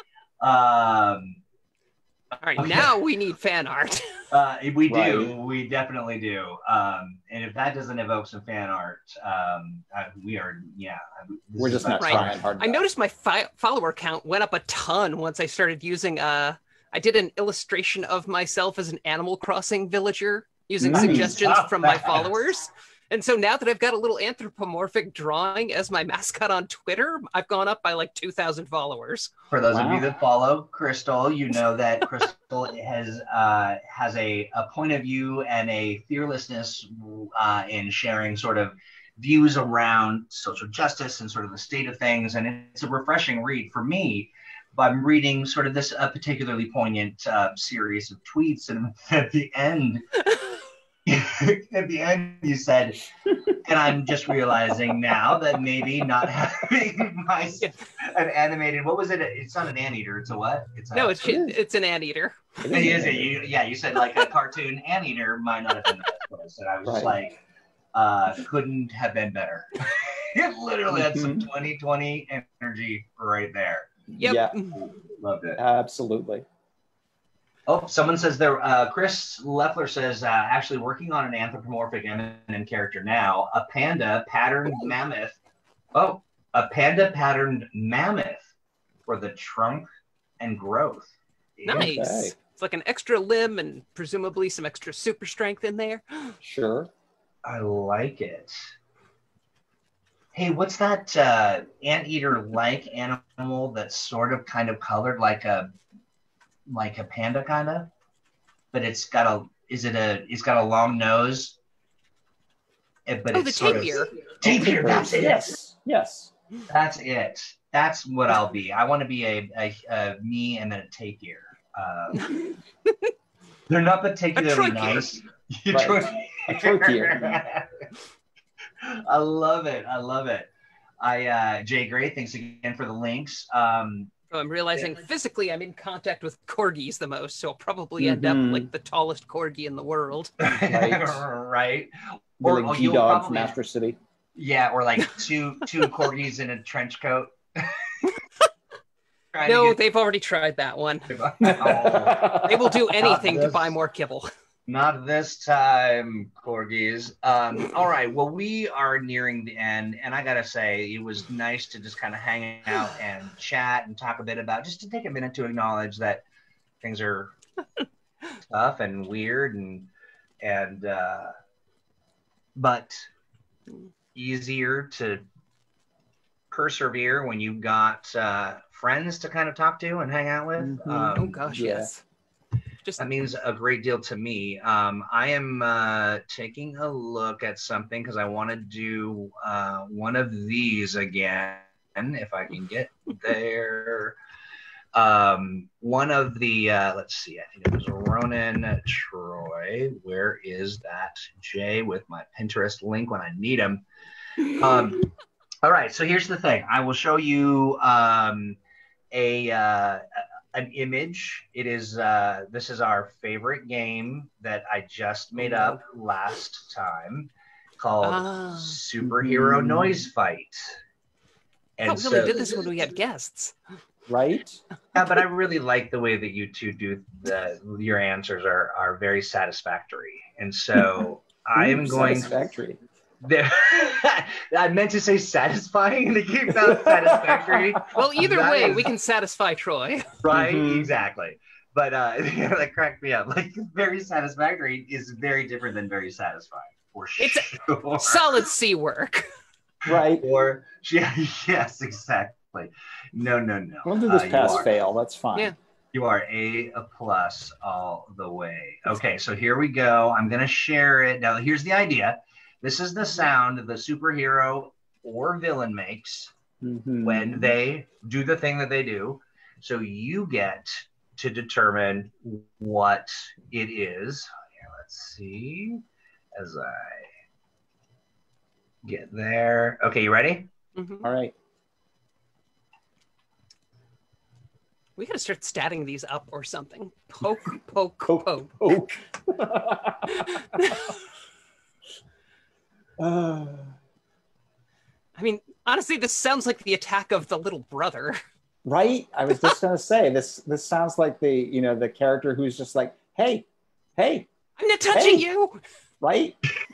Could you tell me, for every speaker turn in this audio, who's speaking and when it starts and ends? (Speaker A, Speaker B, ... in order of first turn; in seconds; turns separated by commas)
Speaker A: 0.4-1.4, Speaker B: 2.4-4.2, Speaker A: 2.5-3.0, Speaker A: 4.3-12.4, Speaker C: 4.9-5.3, Speaker C: 11.6-12.9, Speaker B: 12.0-29.3, Speaker C: 20.8-21.4, Speaker A: 20.9-22.3, Speaker A: 29.5-50.0, Speaker C: 29.7-30.0, Speaker A: 51.0-61.2, Speaker B: 60.9-63.0, Speaker C: 61.2-61.6, Speaker C: 62.6-63.5, Speaker A: 62.7-67.4, Speaker C: 66.8-67.2, Speaker A: 67.9-73.9, Speaker C: 70.9-71.5, Speaker C: 74.1-74.5, Speaker B: 74.2-74.8, Speaker A: 74.7-75.6, Speaker C: 75.6-76.4, Speaker A: 77.7-85.4, Speaker A: 85.9-88.5, Speaker A: 89.1-92.0, Speaker B: 91.7-96.3, Speaker C: 91.7-92.3, Speaker C: 96.4-96.9, Speaker A: 97.4-98.6, Speaker A: 100.3-105.7, Speaker A: 106.7-107.9, Speaker A: 108.7-111.6, Speaker A: 113.1-115.5, Speaker B: 113.3-114.1, Speaker C: 114.4-116.3, Speaker A: 116.7-122.4, Speaker A: 123.7-127.9, Speaker B: 124.3-125.1, Speaker C: 125.7-127.4, Speaker A: 128.8-130.5, Speaker A: 131.0-134.1, Speaker B: 134.3-140.4, Speaker C: 138.0-138.7, Speaker A: 140.4-143.5, Speaker C: 140.6-141.2, Speaker C: 142.4-144.0, Speaker A: 144.3-148.1, Speaker A: 149.3-149.8, Speaker B: 149.4-151.1, Speaker A: 151.1-152.4, Speaker C: 151.4-153.0, Speaker B: 152.3-154.3, Speaker A: 153.0-153.8, Speaker A: 154.7-166.2, Speaker A: 166.8-167.3, Speaker A: 168.5-169.9, Speaker A: 170.4-171.3, Speaker A: 172.6-173.1, Speaker A: 174.1-175.2, Speaker A: 176.5-181.4, Speaker C: 180.6-181.9, Speaker B: 181.1-182.0, Speaker A: 183.0-194.2, Speaker A: 194.9-203.8, Speaker A: 204.4-205.1, Speaker A: 205.6-208.6, Speaker A: 209.1-220.8, Speaker B: 218.0-218.8, Speaker C: 219.0-220.0, Speaker A: 221.8-222.7, Speaker B: 221.8-223.5, Speaker C: 224.1-224.6, Speaker A: 224.9-232.3, Speaker C: 231.6-232.8, Speaker A: 233.2-238.9, Speaker C: 236.6-237.8, Speaker B: 237.9-240.1, Speaker A: 240.2-248.4, Speaker C: 240.3-240.9, Speaker B: 247.2-249.3, Speaker C: 249.8-250.2, Speaker A: 249.8-254.7, Speaker C: 253.8-255.5, Speaker A: 255.9-266.3, Speaker C: 266.6-267.5, Speaker A: 267.0-275.8, Speaker A: 276.3-277.1, Speaker A: 278.8-280.5, Speaker B: 280.7-281.1, Speaker C: 281.0-281.3, Speaker B: 285.0-288.5, Speaker C: 288.1-290.7, Speaker B: 290.2-291.0, Speaker C: 293.0-293.7, Speaker B: 295.1-298.2, Speaker C: 298.6-304.3, Speaker B: 304.6-305.6, Speaker C: 304.9-305.3, Speaker C: 306.0-306.4